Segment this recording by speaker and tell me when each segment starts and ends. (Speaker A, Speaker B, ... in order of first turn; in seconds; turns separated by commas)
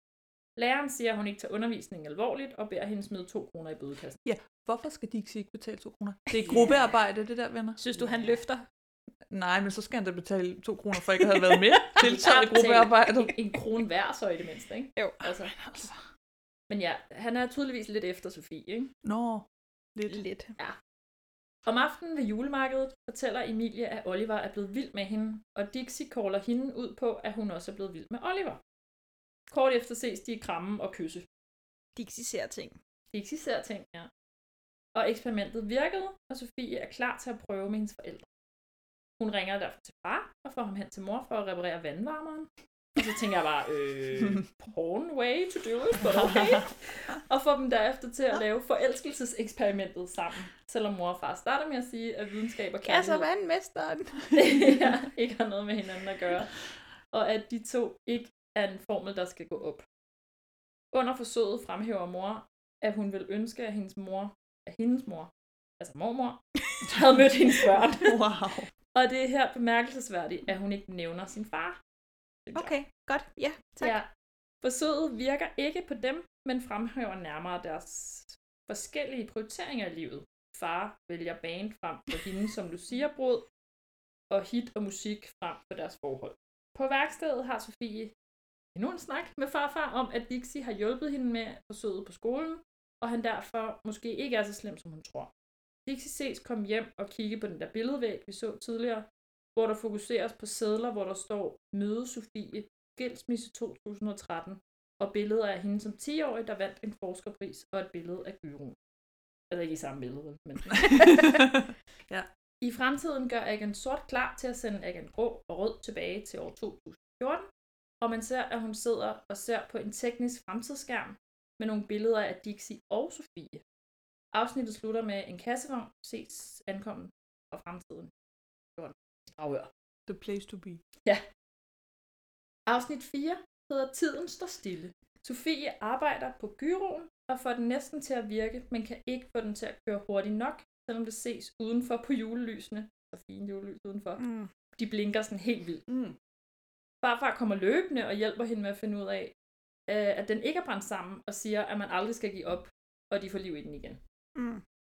Speaker A: 0.6-4.2, Speaker B: 4.2-7.8, Speaker C: 6.3-6.7, Speaker A: 6.5-6.9, Speaker C: 7.8-8.6, Speaker B: 9.3-13.3, Speaker A: 11.9-15.6, Speaker B: 15.5-15.9, Speaker A: 16.7-18.9, Speaker B: 19.0-20.2, Speaker C: 20.1-20.5, Speaker A: 21.6-28.6, Speaker A: 29.5-31.2, Speaker C: 31.9-32.8, Speaker A: 33.1-34.1, Speaker A: 34.9-38.2, Speaker A: 39.2-53.3, Speaker B: 46.0-46.6, Speaker C: 52.8-54.6, Speaker A: 54.3-56.5, Speaker A: 57.1-59.8, Speaker A: 60.9-68.2, Speaker B: 66.9-67.2, Speaker B: 67.8-68.7, Speaker A: 68.9-71.8, Speaker A: 72.5-72.7, Speaker C: 72.5-74.0, Speaker A: 73.8-74.1, Speaker A: 74.6-83.4, Speaker A: 84.3-88.1, Speaker A: 88.7-95.3, Speaker A: 95.8-108.8, Speaker A: 109.5-111.4, Speaker B: 110.7-112.3, Speaker A: 112.6-117.5, Speaker A: 118.0-123.6, Speaker A: 124.3-128.1, Speaker A: 128.8-129.7, Speaker B: 130.1-130.8, Speaker A: 132.7-144.2, Speaker C: 144.2-144.5, Speaker A: 144.8-145.8, Speaker B: 145.9-146.2, Speaker A: 147.0-149.3, Speaker A: 149.9-154.0, Speaker C: 154.3-154.6